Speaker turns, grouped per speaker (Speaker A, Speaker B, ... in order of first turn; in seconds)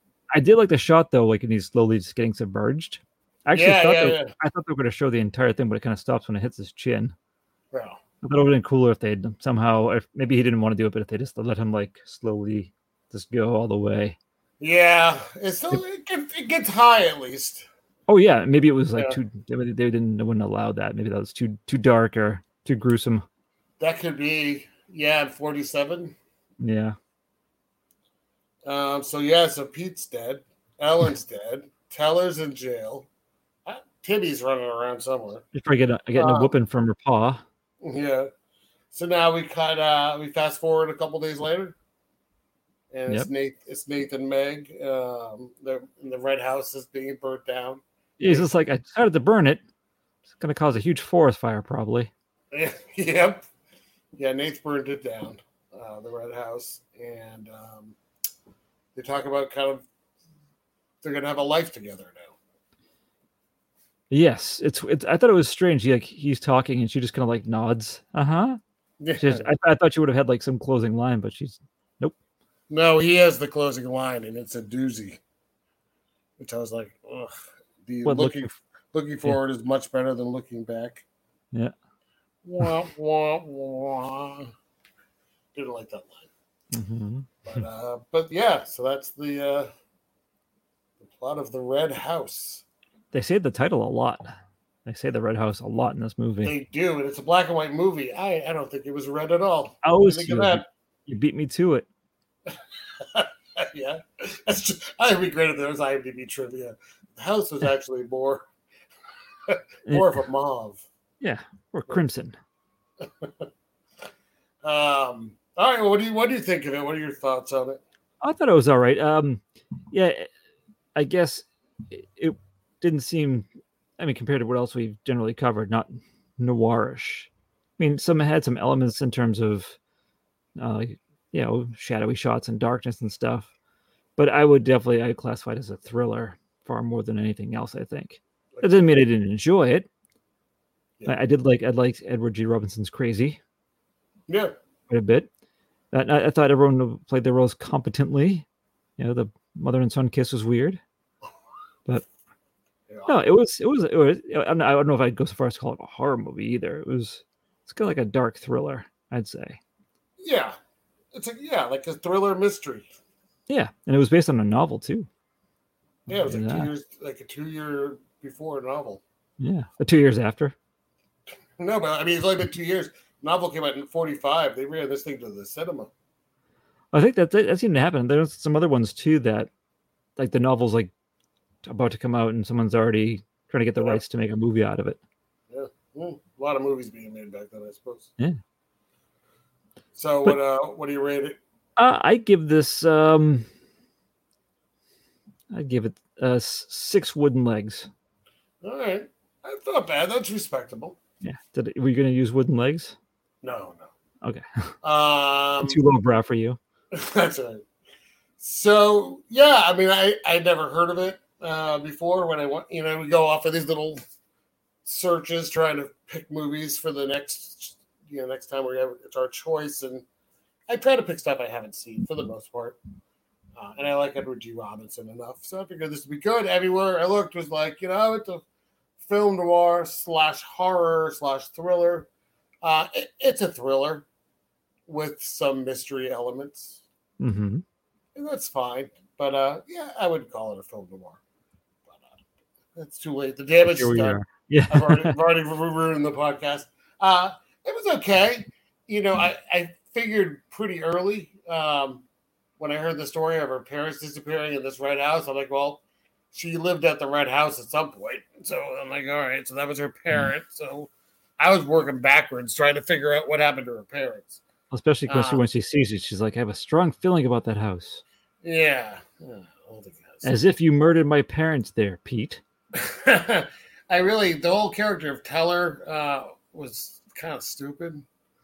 Speaker A: 0.3-7.1, 8.2-14.2, 18.1-23.2, 26.6-26.9, 35.5-37.4, 48.2-49.6, 50.3-52.1, 64.1-68.6, 69.2-72.1, 78.0-78.5, 86.7-87.5, 93.1-94.3, 94.8-96.5, 99.8-101.9, 109.9-110.1, 111.2-112.3, 118.2-120.3, 120.9-123.5, 124.0-129.8, 130.6-133.5, 134.2-139.9, 141.1-143.4, 144.9-145.3, 145.9-148.4, 149.0-150.8, 153.1-159.6, 163.5-165.1, 166.1-166.7, 169.4-170.5, 176.9-179.5, 180.2-180.9, 181.6-185.0, 191.8-193.4, 195.5-197.9, 201.2-202.9, 204.2-204.7, 205.6-206.6, 237.2-237.6, 243.6-245.2, 264.7-268.0, 270.2-272.4
Speaker B: 3.5-4.3, 7.7-8.0, 14.6-17.6, 23.8-26.1, 28.6-33.1, 33.6-35.4, 36.1-36.5, 37.8-38.3, 38.9-41.7, 42.9-48.5, 52.5-53.5, 54.1-58.0, 58.9-59.8, 61.0-62.3, 69.0-69.5, 72.7-75.2, 76.4-77.3, 77.8-81.0, 82.4-84.5, 85.5-86.3, 87.5-89.7, 91.0-92.6, 96.4-100.6, 102.5-108.5, 109.5-110.8, 113.0-113.5, 114.6-117.8, 138.5-138.8, 144.3-144.6, 152.9-153.2, 160.2-160.6, 161.1-162.9, 166.1-169.0, 171.6-175.9, 185.5-188.1, 189.9-191.4, 198.6-201.0, 203.4-203.9, 204.8-205.8, 206.9-207.6, 208.4-214.0, 214.8-220.0, 220.7-222.8, 223.5-228.4, 229.0-232.1, 232.6-234.1, 234.9-236.8, 238.1-241.2, 241.9-242.2, 242.7-252.0, 252.6-264.4, 265.1-265.4, 268.4-270.3, 272.7-278.1